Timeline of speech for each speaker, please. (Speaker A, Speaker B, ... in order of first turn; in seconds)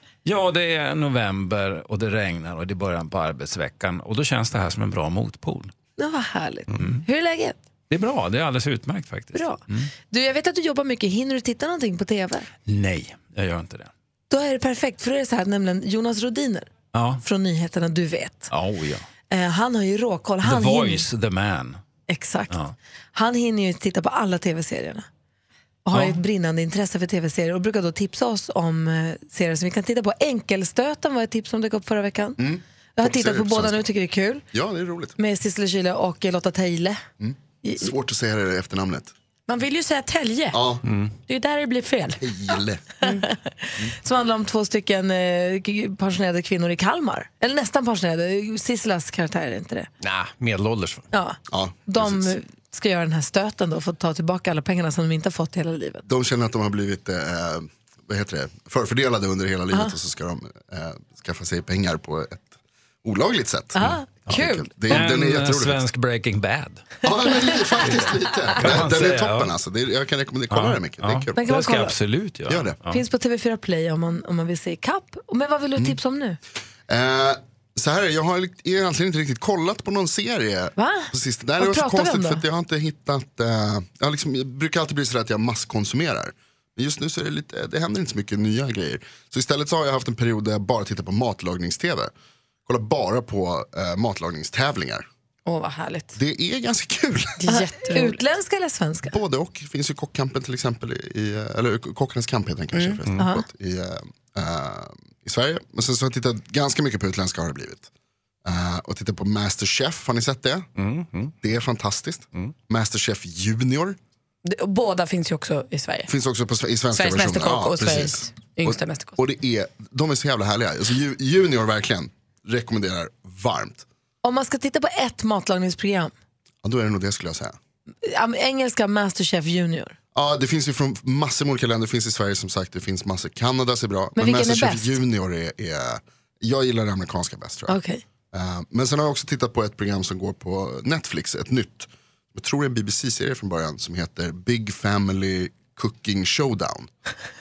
Speaker A: 0.2-5.7, 6.7-7.0, 7.9-9.9, 12.7-13.9, 16.9-17.2, 18.5-19.1, 20.4-21.8, 22.5-22.8, 25.9-26.2, 64.9-66.9, 67.8-69.5, 70.5-73.0
Speaker B: 6.0-7.6, 9.3-12.5, 14.3-16.7, 17.2-18.5, 19.3-21.1, 22.1-22.6, 23.1-25.1, 25.9-32.4, 33.0-34.4, 35.2-37.0, 37.6-37.9, 43.0-49.9, 51.1-56.0, 63.8-64.9, 67.2-67.9, 71.3-72.0, 72.9-76.4, 80.8-82.4, 97.5-99.2, 103.2-103.5, 124.2-126.1, 128.1-130.0, 134.2-135.0, 137.7-138.0
Speaker C: 32.4-33.9, 34.5-35.1, 37.2-39.1, 40.5-40.8, 42.2-42.8, 51.5-52.3, 56.1-62.5, 63.0-65.8, 67.0-71.4, 72.5-72.8, 76.9-92.1, 92.7-95.0, 96.2-97.4, 99.1-107.9, 108.5-110.7, 111.4-114.0, 116.1-123.8, 126.6-127.6, 130.1-137.8, 138.3-146.9
Speaker D: 39.5-40.6, 41.3-42.2, 95.5-96.2, 97.4-98.2, 102.7-103.0, 114.5-116.1, 116.9-119.2
Speaker E: 40.9-41.1, 50.0-51.1, 110.8-111.3